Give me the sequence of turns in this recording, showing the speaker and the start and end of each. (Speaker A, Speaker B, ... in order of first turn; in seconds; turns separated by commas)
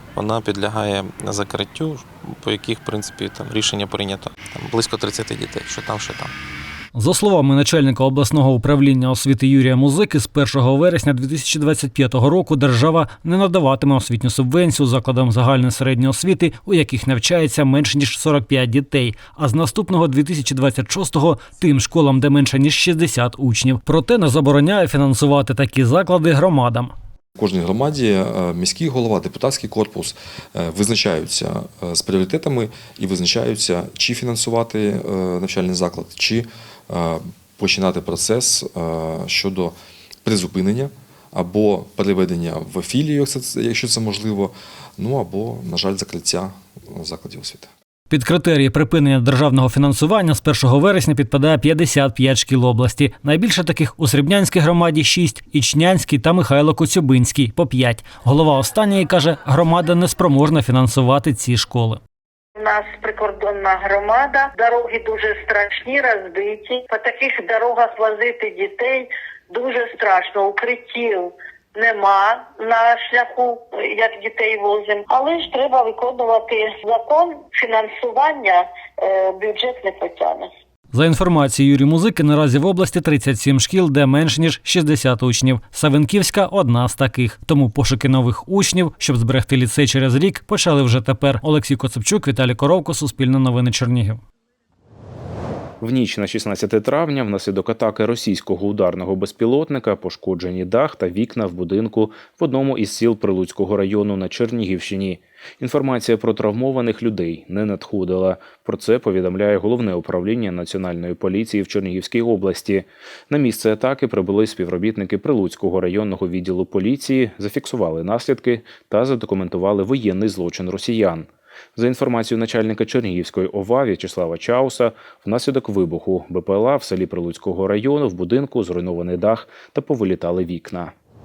Speaker A: 0.1-6.3, Speaker B: 6.9-26.9, Speaker C: 27.4-47.7, Speaker B: 48.1-62.0, Speaker D: 62.5-80.5, Speaker B: 80.9-94.2, Speaker E: 95.8-130.9